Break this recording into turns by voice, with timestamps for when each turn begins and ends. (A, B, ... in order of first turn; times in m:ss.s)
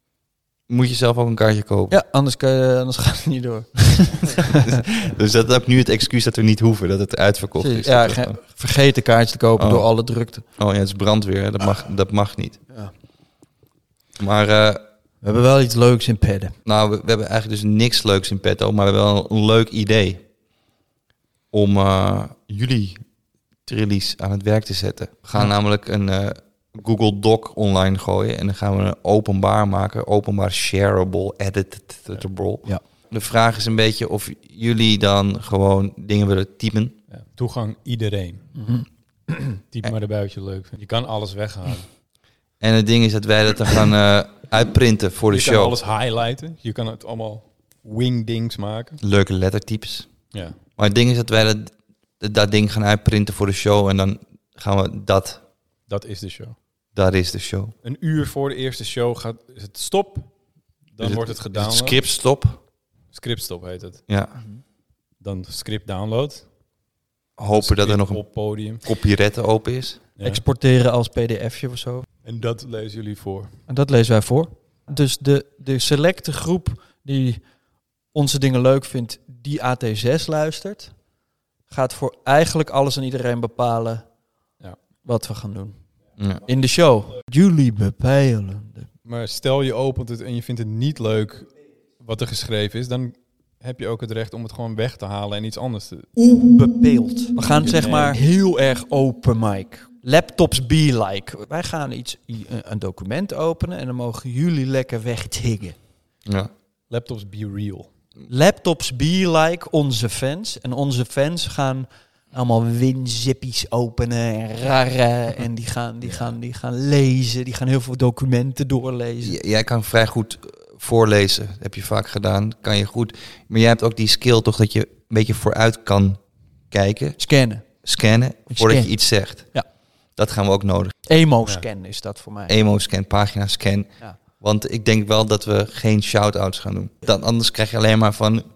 0:00.7-0:02.0 A
0:01.9-0:04.5 B
0:04.6-0:08.4 A
0:07.6-0:10.4 B
0:09.6-0:09.9 A
0:10.6-0:12.6 A
0:14.2-0:14.8 A
0:15.2-0:16.5 B
0:16.6-0:20.2 A
0:21.5-0:23.0 A
0:23.6-0:37.0 A
0:37.1-0:38.4 C
0:38.6-0:39.6 B
0:39.7-0:41.9 C
0:42.6-0:45.8 A
0:45.3-0:49.0 C
0:49.0-0:50.1 A
0:50.3-0:50.6 C
0:50.8-0:55.4 A
0:55.9-0:56.6 C
0:56.9-0:57.7 A
0:57.8-1:00.3 C
1:00.9-1:02.0 C
1:01.0-1:02.6 A
1:03.1-1:04.0 C
1:04.1-1:04.4 A
1:05.2-1:06.5 C
1:07.4-1:08.2 A
1:07.5-1:08.8 C
1:08.8-1:10.0 A
1:10.2-1:10.4 C
1:10.2-1:12.0 B
1:12.2-1:13.5 C
1:13.7-1:17.4 B
1:18.1-1:20.9 B
1:21.7-1:24.0 B
1:25.0-1:25.8 B
1:26.2-1:26.4 A
1:26.4-1:28.9 B
1:29.0-1:36.1 C
1:36.2-1:45.8 B
1:37.6-1:38.2 C
1:46.9-1:47.9 C
1:48.3-1:59.4 B
1:59.2-2:06.2 A
2:06.7-2:07.2 A
2:07.2-2:07.6 B
2:07.8-2:09.6 A
2:08.5-2:09.6 B
2:10.2-2:10.9 A
2:11.1-2:12.6 B
2:12.5-2:18.4 A